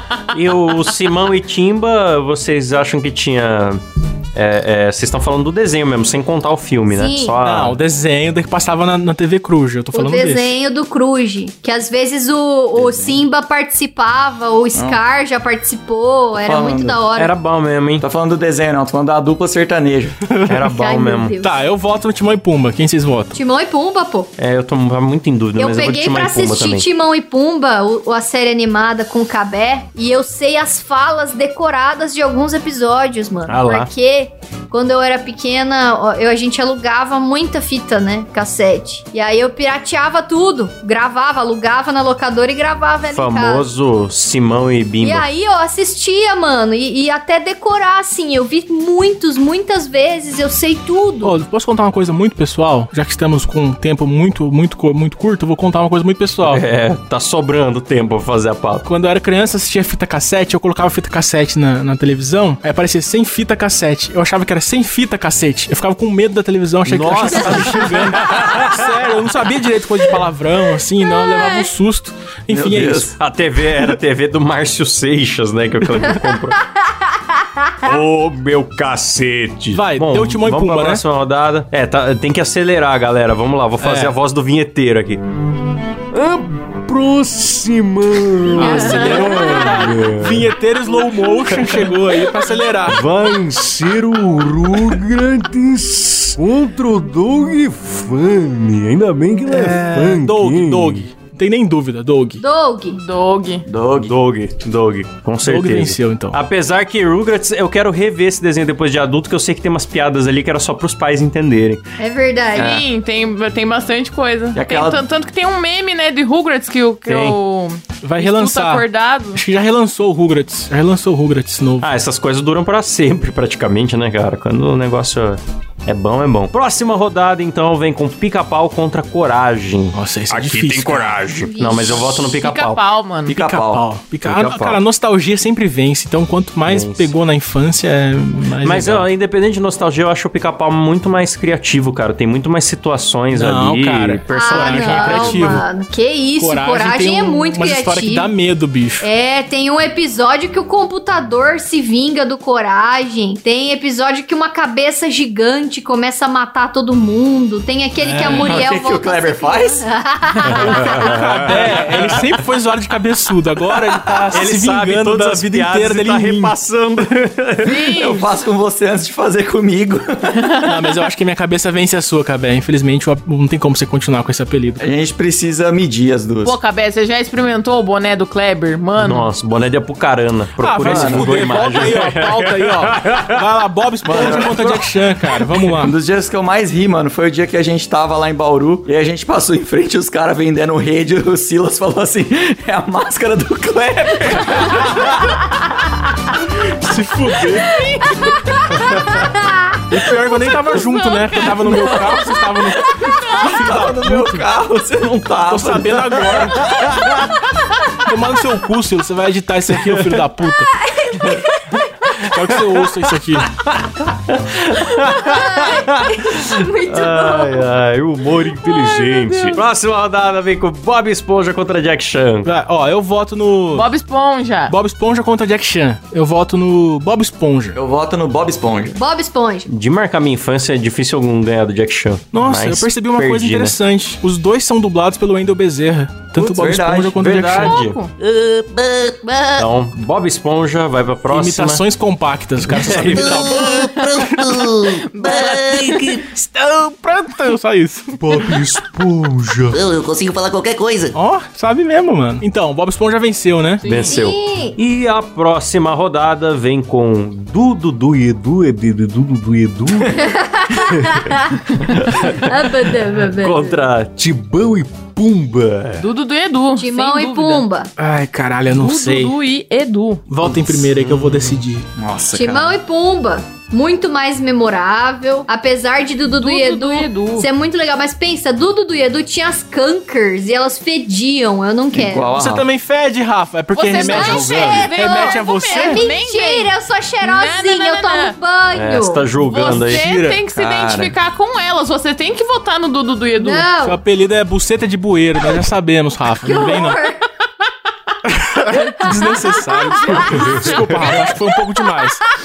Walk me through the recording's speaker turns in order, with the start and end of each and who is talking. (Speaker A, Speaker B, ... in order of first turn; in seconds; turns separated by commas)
Speaker A: 0.3-3.8, Speaker A: 4.3-7.8, Speaker B: 6.9-7.4, Speaker C: 7.4-10.5, Speaker B: 9.9-17.3, Speaker D: 12.8-13.2, Speaker D: 14.7-15.0, Speaker D: 16.4-17.0, Speaker A: 17.1-18.1, Speaker D: 18.0-20.3, Speaker C: 20.3-20.6, Speaker A: 20.5-21.4, Speaker B: 20.6-21.6, Speaker C: 21.4-23.4, Speaker B: 23.3-24.3, Speaker A: 24.4-26.9, Speaker B: 25.6-43.7, Speaker A: 33.5-33.9, Speaker A: 43.1-45.3, Speaker B: 45.0-51.4, Speaker C: 51.2-56.6, Speaker A: 56.4-58.9, Speaker C: 58.9-73.1, Speaker A: 66.9-69.2, Speaker B: 71.1-71.7, Speaker D: 72.5-73.1, Speaker A: 73.2-76.6, Speaker A: 77.8-85.2, Speaker C: 79.7-81.0, Speaker C: 83.8-84.2, Speaker A: 86.1-90.5, Speaker C: 88.5-93.0, Speaker B: 88.6-89.8, Speaker A: 91.1-92.0, Speaker A: 92.9-101.0, Speaker C: 99.5-102.4, Speaker B: 102.4-103.0, Speaker E: 102.9-103.7, Speaker D: 103.7-104.1, Speaker A: 104.0-111.8, Speaker C: 105.4-106.4, Speaker B: 112.0-112.8, Speaker E: 112.5-119.4, Speaker D: 112.6-112.8, Speaker D: 114.5-115.0, Speaker A: 117.1-117.4, Speaker C: 118.0-121.9, Speaker A: 121.8-132.8, Speaker C: 129.9-131.2, Speaker B: 131.3-132.4, Speaker E: 132.2-133.4, Speaker D: 133.3-133.8, Speaker C: 133.3-139.1, Speaker A: 134.2-134.8, Speaker A: 136.7-137.1, Speaker A: 138.6-145.6, Speaker C: 143.3-145.7, Speaker B: 144.3-148.3, Speaker C: 146.4-149.1, Speaker B: 149.0-161.2, Speaker C: 158.0-158.6, Speaker D: 158.2-159.8, Speaker C: 160.5-166.6, Speaker A: 160.6-162.3, Speaker A: 163.9-167.9, Speaker E: 167.6-168.4, Speaker D: 168.0-170.6, Speaker C: 170.7-174.9, Speaker D: 174.8-176.6, Speaker E: 176.4-179.3, Speaker A: 179.0-183.4, Speaker C: 180.6-185.9, Speaker D: 180.8-181.6, Speaker D: 184.1-184.9, Speaker A: 184.1-184.4, Speaker D: 185.7-195.2, Speaker C: 196.6-198.1, Speaker B: 198.2-199.8, Speaker C: 199.9-204.4, Speaker B: 201.9-202.3, Speaker D: 203.4-206.6, Speaker C: 205.5-206.8, Speaker A: 206.9-207.2, Speaker C: 208.0-210.7, Speaker A: 209.8-210.2, Speaker B: 210.8-212.1, Speaker C: 212.2-213.5, Speaker A: 213.4-222.5, Speaker B: 214.9-217.8, Speaker B: 218.6-219.6, Speaker C: 222.4-223.9, Speaker E: 223.7-224.7, Speaker C: 224.7-227.8, Speaker D: 227.8-229.0, Speaker B: 228.9-229.7, Speaker A: 229.7-233.8, Speaker C: 232.3-237.8, Speaker D: 236.3-237.3, Speaker A: 237.1-238.8, Speaker E: 237.5-238.1, Speaker E: 239.2-239.7, Speaker A: 239.6-241.8, Speaker C: 241.3-244.1, Speaker A: 242.6-243.7, Speaker E: 243.5-246.2, Speaker F: 243.9-246.2, Speaker C: 246.2-248.6, Speaker A: 248.2-249.8, Speaker F: 249.8-251.1, Speaker C: 251.1-253.9, Speaker E: 253.8-254.2, Speaker A: 253.8-266.1, Speaker B: 254.1-254.8, Speaker B: 260.1-263.8, Speaker E: 266.0-267.7, Speaker B: 266.8-267.9, Speaker C: 268.0-269.3, Speaker E: 268.7-270.3, Speaker C: 270.3-271.9, Speaker A: 270.5-271.6, Speaker D: 272.0-272.8, Speaker B: 272.3-282.3, Speaker E: 276.2-277.5, Speaker D: 281.9-282.7, Speaker C: 282.3-286.0, Speaker E: 283.7-288.4, Speaker B: 283.9-289.4, Speaker A: 284.1-284.9, Speaker A: 288.7-290.3, Speaker E: 289.4-293.7, Speaker C: 289.7-290.4, Speaker D: 290.5-291.1, Speaker B: 293.4-294.0, Speaker C: 293.8-297.0, Speaker B: 296.4-297.2, Speaker C: 298.3-302.2, Speaker B: 298.7-300.6, Speaker A: 300.3-301.0